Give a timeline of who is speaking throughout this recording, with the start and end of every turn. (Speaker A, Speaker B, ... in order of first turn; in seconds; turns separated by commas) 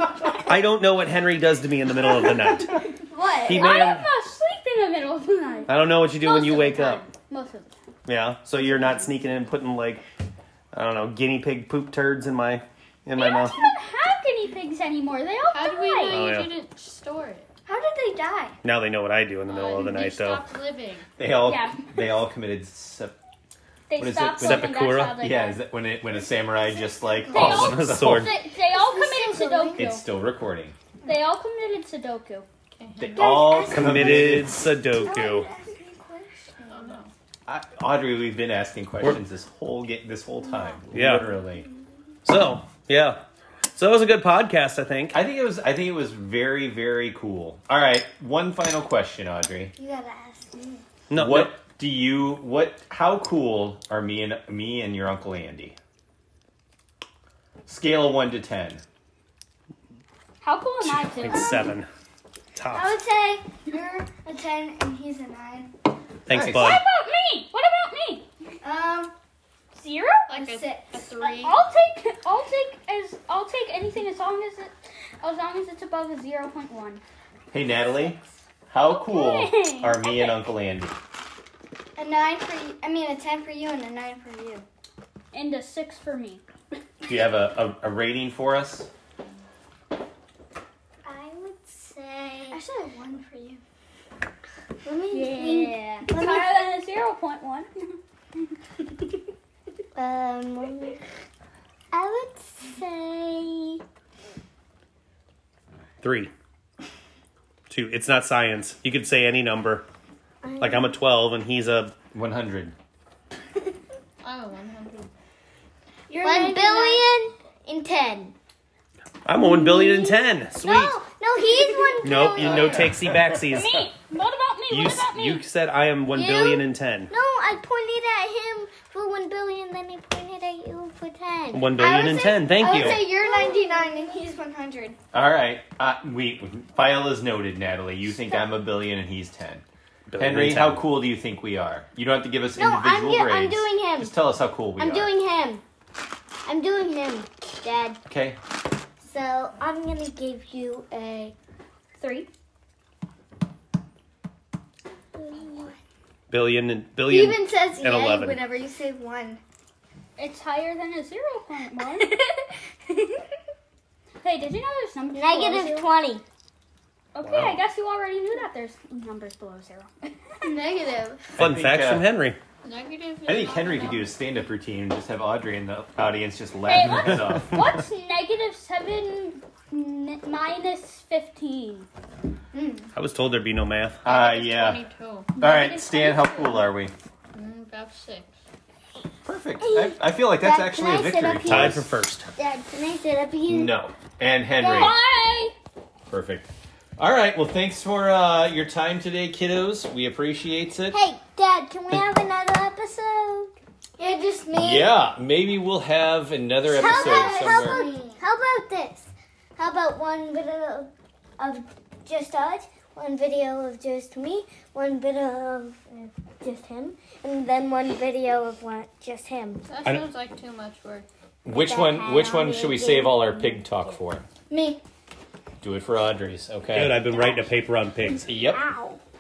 Speaker A: 0.5-4.1, Speaker B: 2.9-3.8, Speaker C: 3.5-7.9, Speaker A: 5.7-7.0, Speaker A: 8.1-10.1, Speaker A: 10.7-13.7, Speaker C: 13.2-16.3, Speaker D: 15.5-17.5, Speaker A: 16.1-16.5, Speaker B: 17.7-18.6, Speaker A: 18.6-20.4, Speaker D: 19.5-21.1, Speaker E: 21.2-23.2, Speaker C: 21.4-22.3, Speaker C: 23.9-25.6, Speaker E: 24.0-28.3, Speaker A: 24.4-25.2, Speaker B: 26.4-27.8, Speaker C: 27.3-30.0, Speaker A: 27.3-28.3, Speaker B: 28.6-29.9, Speaker E: 29.8-30.8, Speaker C: 31.0-32.5, Speaker D: 32.7-33.6, Speaker E: 33.0-34.7, Speaker B: 33.1-34.4, Speaker A: 33.7-35.5, Speaker B: 34.9-37.0, Speaker D: 36.7-37.1, Speaker E: 37.5-41.7, Speaker A: 40.9-41.3, Speaker A: 42.2-43.2, Speaker A: 43.8-45.2, Speaker E: 45.1-49.8, Speaker B: 49.8-50.8, Speaker A: 51.1-51.6, Speaker E: 51.1-55.8, Speaker E: 57.7-58.8, Speaker C: 60.4-61.7, Speaker A: 60.8-61.9, Speaker A: 62.6-63.0, Speaker B: 62.7-65.7, Speaker A: 66.3-66.8, Speaker E: 66.3-66.8, Speaker C: 66.3-68.3, Speaker B: 68.6-69.1, Speaker C: 69.7-70.3, Speaker D: 70.3-71.6, Speaker B: 70.4-71.3, Speaker C: 71.3-77.0, Speaker E: 77.5-81.0, Speaker C: 78.9-80.5, Speaker B: 82.0-84.7, Speaker C: 85.3-86.4, Speaker E: 87.1-88.9, Speaker F: 91.0-92.6, Speaker B: 92.5-93.6, Speaker F: 94.8-96.5, Speaker C: 95.1-98.0, Speaker B: 96.1-96.6, Speaker F: 100.0-101.0, Speaker F: 101.9-103.8, Speaker A: 106.0-106.3, Speaker A: 107.7-109.9, Speaker F: 110.4-110.9, Speaker A: 110.6-111.9, Speaker E: 112.1-112.8, Speaker D: 114.2-115.1, Speaker B: 116.1-117.0, Speaker F: 116.2-118.3, Speaker A: 119.2-121.0, Speaker F: 119.3-122.8, Speaker B: 121.8-122.1, Speaker A: 122.0-123.8, Speaker E: 122.4-123.4, Speaker C: 123.5-125.5, Speaker A: 124.7-127.1, Speaker F: 126.1-131.8, Speaker A: 131.5-133.1, Speaker B: 131.8-135.0, Speaker F: 132.7-134.1, Speaker E: 135.1-139.6, Speaker A: 140.1-140.8, Speaker E: 140.2-145.1, Speaker F: 142.6-144.2, Speaker F: 144.8-145.6, Speaker F: 146.4-148.0, Speaker E: 148.1-148.4, Speaker F: 149.0-151.3, Speaker F: 152.0-152.3, Speaker F: 155.2-155.8, Speaker A: 156.3-158.4, Speaker B: 157.1-159.4, Speaker C: 160.2-162.2, Speaker F: 162.0-162.4, Speaker C: 164.2-165.9, Speaker F: 165.1-166.2, Speaker C: 167.1-170.6, Speaker A: 167.2-167.6, Speaker D: 170.4-171.4, Speaker E: 171.4-172.1, Speaker A: 171.4-172.4, Speaker D: 172.6-174.1, Speaker E: 173.3-177.7, Speaker C: 176.7-181.9, Speaker B: 182.5-182.9, Speaker A: 182.9-184.0, Speaker D: 184.0-185.4, Speaker E: 184.1-184.8, Speaker C: 185.4-186.7, Speaker E: 185.4-186.9, Speaker D: 187.3-188.4, Speaker E: 189.3-191.8, Speaker F: 189.6-191.8, Speaker A: 191.5-192.3, Speaker F: 192.4-193.7, Speaker E: 193.5-195.0, Speaker F: 194.6-195.0, Speaker C: 194.7-195.5, Speaker E: 196.1-201.0, Speaker F: 200.9-203.5, Speaker B: 204.0-204.9, Speaker E: 204.5-207.8, Speaker F: 206.7-219.7, Speaker B: 206.7-208.2, Speaker D: 219.7-221.1, Speaker E: 221.4-224.2, Speaker F: 221.5-223.6, Speaker B: 224.5-224.8, Speaker E: 225.6-227.2, Speaker A: 226.7-228.3, Speaker F: 227.0-227.5, Speaker E: 228.2-228.6, Speaker F: 228.3-229.0